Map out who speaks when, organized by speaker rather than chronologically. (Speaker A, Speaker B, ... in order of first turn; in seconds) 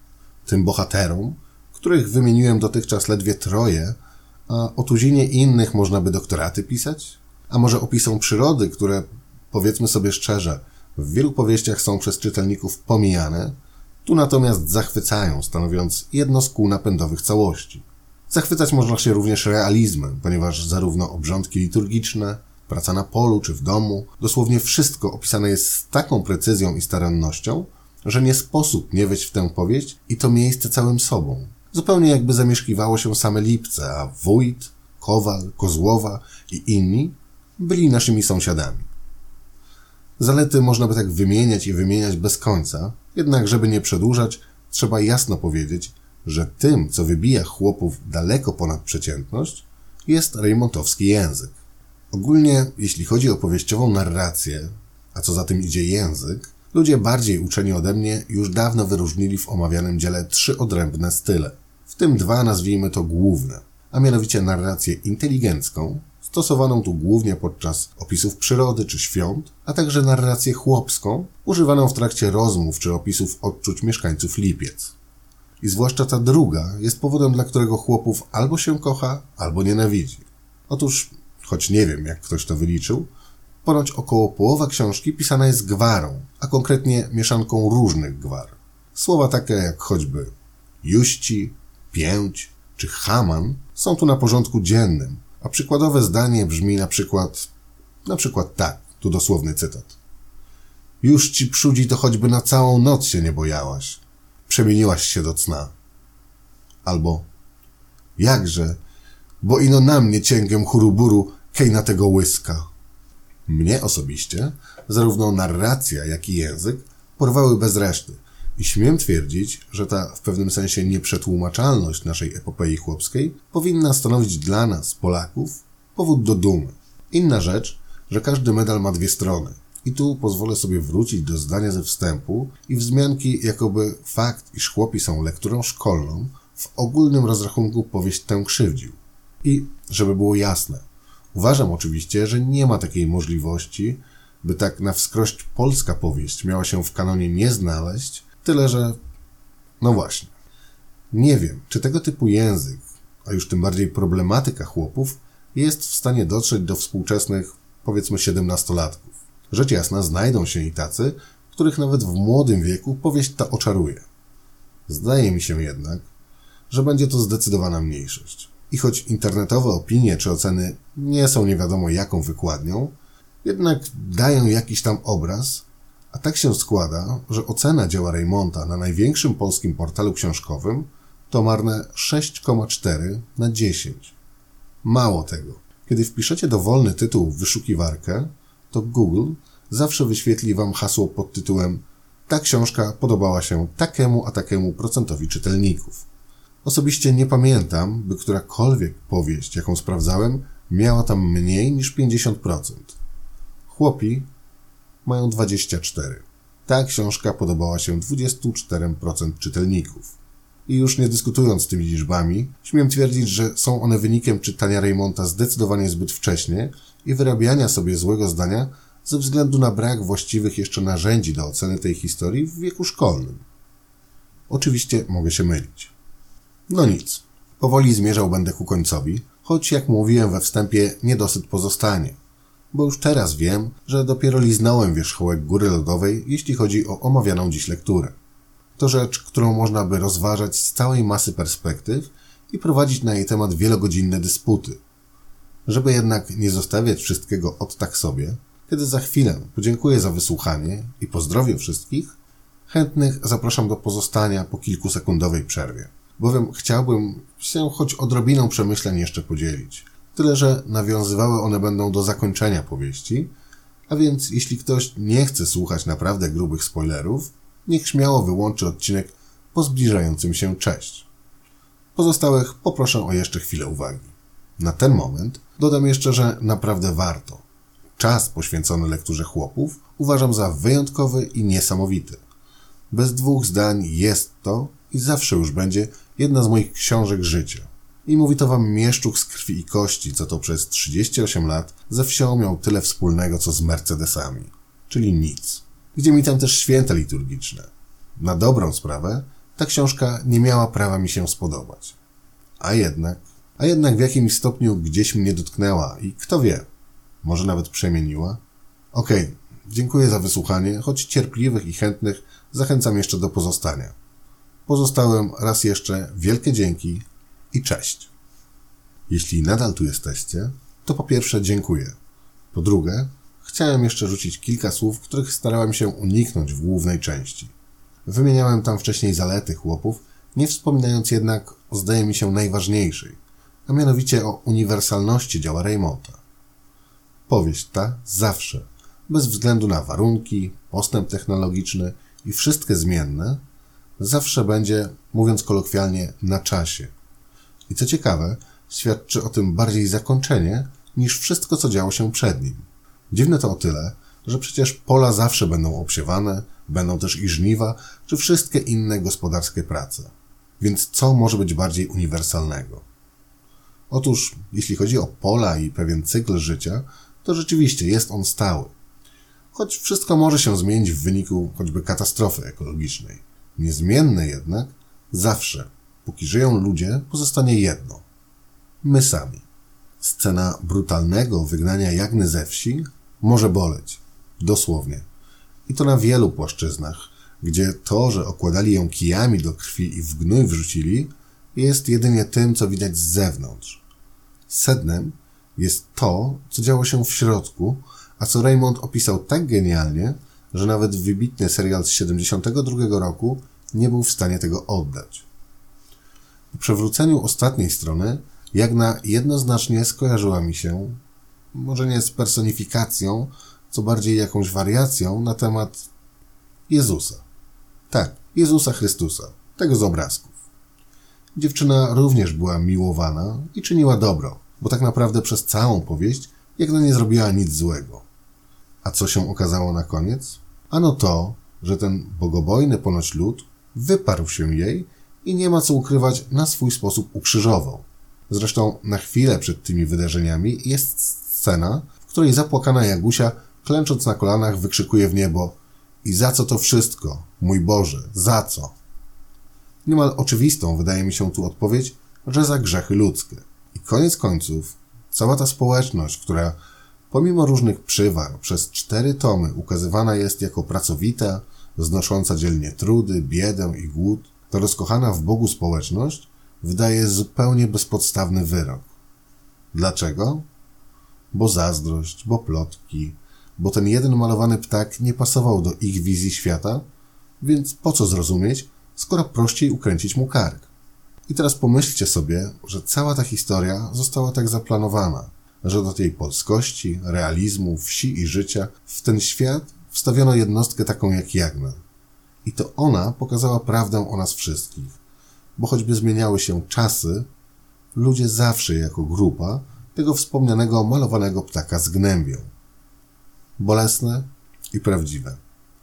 Speaker A: 0.4-4.0, 4.5-38.9, 40.2-51.6, 52.1-74.9, 75.6-83.1, 83.6-97.5, 98.0-100.0, 101.0-105.7, 106.8-107.2, 108.2-108.8, 109.4-112.7, 113.5-149.0, 149.8-150.3, 151.1-164.0, 164.9-166.1, 166.7-184.1, 184.8-196.0, 196.6-202.9, 203.7-204.3, 205.0-210.2, 210.7-223.4, 224.5-225.9, 226.7-232.2, 232.7-238.1, 238.8-244.8, 245.7-252.1, 252.7-263.3, 263.9-271.1, 271.9-277.4, 278.0-282.2, 282.9-302.0, 302.6-306.6, 307.2-308.4, 308.9-313.9, 314.7-318.1, 319.1-321.9, 322.5-327.5, 328.1-336.2, 337.3-343.4, 344.0-346.9, 347.7-362.8, 363.9-368.7, 369.5-378.0, 378.8-379.4, 380.0-385.1, 385.7-393.8, 394.5-405.2, 406.5-411.0, 411.5-415.9, 416.7-417.2, 417.9-420.4, 421.3-428.1, 428.8-448.7, 449.8-456.6, 457.1-468.9, 469.7-470.4, 471.3-476.8, 477.4-480.7, 481.3-491.8, 492.4-495.0, 495.6-497.3, 497.9-502.5, 503.6-505.4